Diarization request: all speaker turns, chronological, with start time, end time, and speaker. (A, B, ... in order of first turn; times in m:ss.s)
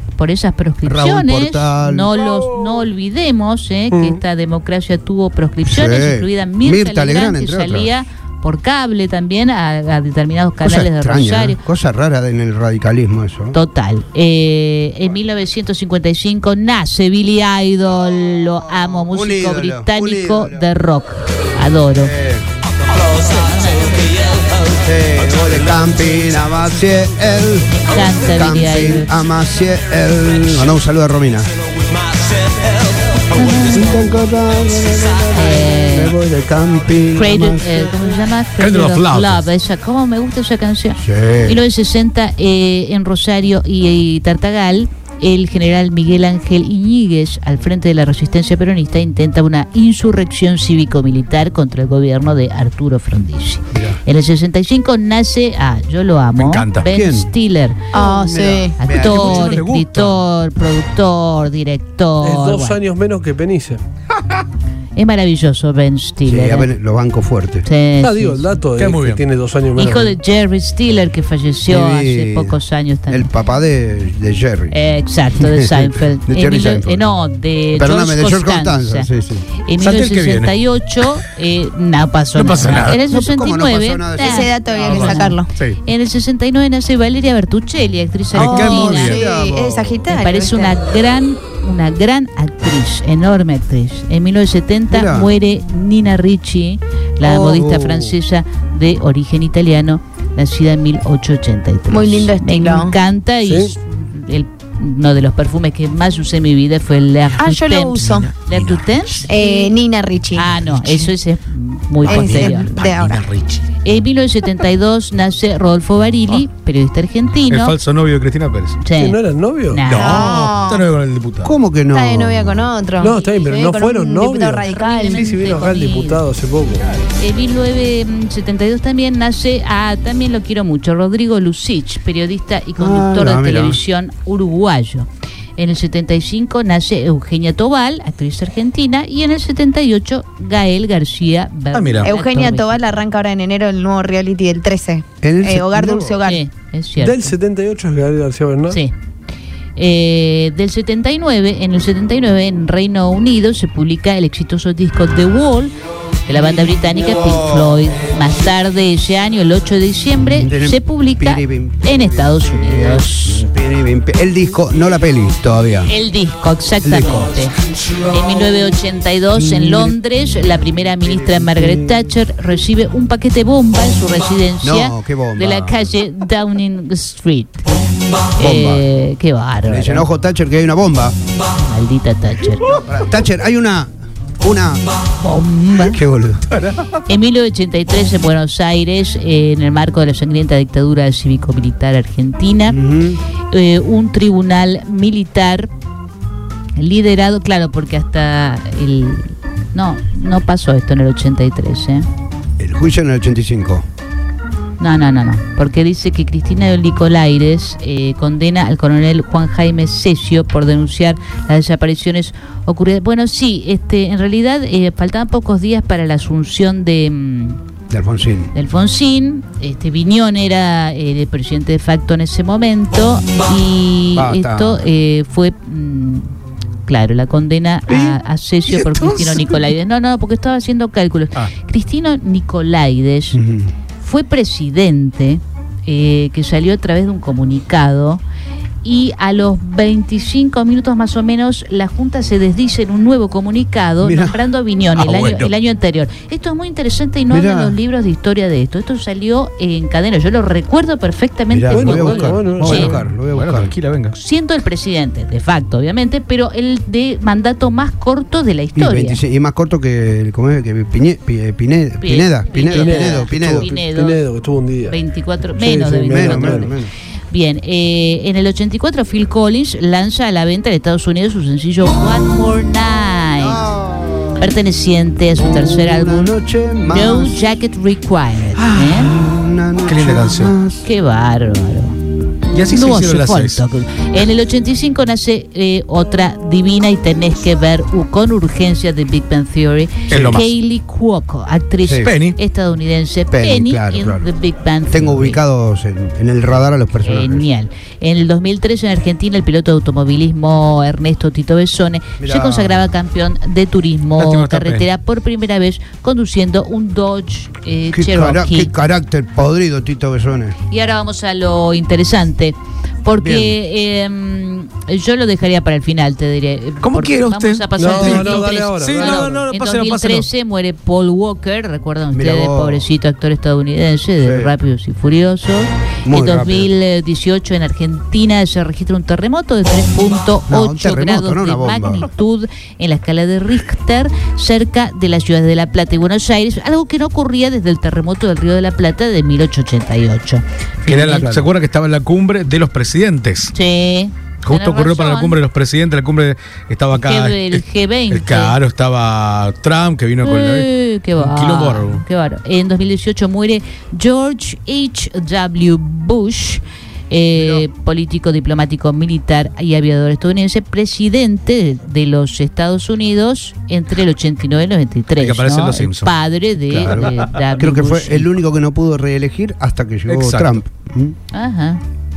0:00.2-0:11.6 A
0:00.8-0:02.1 B
0:03.9-0:04.2 C
0:05.6-0:07.9 B
0:10.6-0:13.6 B
0:13.5-0:22.1 A
0:18.6-0:20.6 B
0:21.9-0:22.5 B
0:23.3-0:24.3 A
0:24.8-0:31.5 B
0:27.7-0:29.1 A
0:33.3-0:34.2 A
0:33.7-0:37.9 B
0:35.3-0:36.1 A
0:37.1-0:57.8 A
0:38.6-0:39.4 D
0:41.0-0:41.6 B
0:56.4-0:56.8 D
0:56.8-0:57.3 B
0:57.9-0:58.8 E
0:57.9-0:59.5 B
0:58.8-1:02.8 A
0:59.0-1:00.2 D
1:02.2-1:03.8 C
1:05.0-1:06.7 A
1:06.2-1:07.7 B
1:07.6-1:08.6 A
1:08.0-1:10.2 C
1:08.8-1:09.2 D
1:09.8-1:13.3 A
1:11.7-1:14.8 B
1:14.7-1:19.1 A
1:15.4-1:17.0 B
1:17.7-1:19.5 B
1:19.6-1:29.2 A
1:19.8-1:20.5 D
1:22.3-1:23.0 D
1:23.1-1:25.1 B
1:24.2-1:25.5 E
1:24.8-1:25.8 D
1:28.3-1:30.8 E
1:28.4-1:29.2 D
1:28.6-1:30.0 B
1:30.1-1:49.7 A
1:34.9-1:35.3 B
1:37.2-1:38.2 B
1:41.9-1:43.0 E
1:43.4-1:43.7 C
1:47.4-1:48.3 E
1:48.1-1:49.3 D
1:49.3-1:51.1 E
1:50.3-1:52.7 A
1:52.0-1:53.2 E
1:52.1-1:53.6 D
1:53.8-1:57.8 A
1:57.5-1:58.8 D
1:58.8-2:00.4 A
1:58.9-1:59.9 C
1:59.9-2:00.8 E
1:59.9-2:01.5 D
2:01.4-2:02.7 B
2:01.9-2:05.5 E
2:03.0-2:06.9 C
2:04.7-2:06.2 A
2:07.2-2:23.0 A
2:12.8-2:13.8 B
2:21.7-2:22.1 D
2:22.0-2:26.4 E
2:25.2-2:26.2 B
2:26.2-2:27.3 A
2:27.0-2:28.8 C
2:28.7-2:28.9 A
2:29.8-2:35.7 A
2:36.2-2:43.4 A
2:36.3-2:38.0 B
2:40.2-2:45.9 B
2:45.8-2:57.8 A
2:46.8-2:47.5 B
2:49.3-2:49.9 B
2:51.0-2:52.0 B
2:54.6-2:55.9 B
2:58.4-3:00.1 A
2:58.4-2:58.9 B
2:59.7-3:01.1 B
3:01.6-3:02.8 A
3:02.7-3:04.8 B
3:05.2-3:06.0 A
3:05.8-3:06.5 B
3:06.5-3:07.0 D
3:07.1-3:12.8 A
3:12.7-3:13.2 B
3:13.5-3:15.7 A
3:16.8-3:22.0 A
3:22.6-3:23.8 B
3:24.8-3:37.6 A
3:37.9-3:38.5 B
3:38.5-3:46.3 A
3:44.2-3:44.8 B
3:46.8-3:53.4 A
3:48.8-3:49.5 D
3:53.3-3:53.7 B
3:54.0-3:58.2 A
3:58.8-4:13.0 A
4:04.0-4:04.4 B
4:04.9-4:05.5 D
4:07.3-4:07.8 B
4:11.5-4:13.7 B
4:11.7-4:12.9 C
4:12.6-4:14.2 D
4:14.1-4:19.2 A
4:18.8-4:23.7 B
4:22.0-4:24.2 A
4:22.7-4:25.0 C
4:24.9-4:26.8 A
4:25.5-4:26.7 C
4:26.1-4:26.9 B
4:27.3-4:33.6 A
4:33.4-4:34.4 B
4:34.4-4:36.3 A
4:35.4-4:37.6 B
4:36.8-4:39.1 A
4:38.6-4:38.9 D
4:38.9-4:40.8 B
4:39.8-4:40.5 D
4:40.8-4:42.0 A
4:42.5-4:43.6 D
4:42.7-4:55.4 A
4:50.1-4:50.5 B
4:50.1-4:50.4 D
4:51.8-4:52.1 B
4:52.0-4:52.4 D
4:53.3-4:54.3 B
4:54.9-4:57.5 B
4:57.0-5:08.7 A
5:02.2-5:02.9 B
5:04.2-5:04.9 D
5:07.9-5:10.6 B
5:10.7-5:41.3 A
5:13.2-5:13.6 B
5:16.8-5:20.3 D
5:17.8-5:19.5 C
5:22.1-5:22.9 B
5:24.2-5:24.5 B
5:26.0-5:26.7 B
5:30.5-5:32.1 B
5:40.8-5:43.5 D
5:41.2-5:41.5 B
5:43.5-5:45.4 A
5:44.4-5:52.0 D
5:47.0-5:48.6 A
5:50.2-6:08.3 A
5:57.3-5:57.7 B
6:05.2-6:06.1 D
6:06.7-6:11.2 B
6:10.1-6:10.6 D
6:11.3-6:11.8 A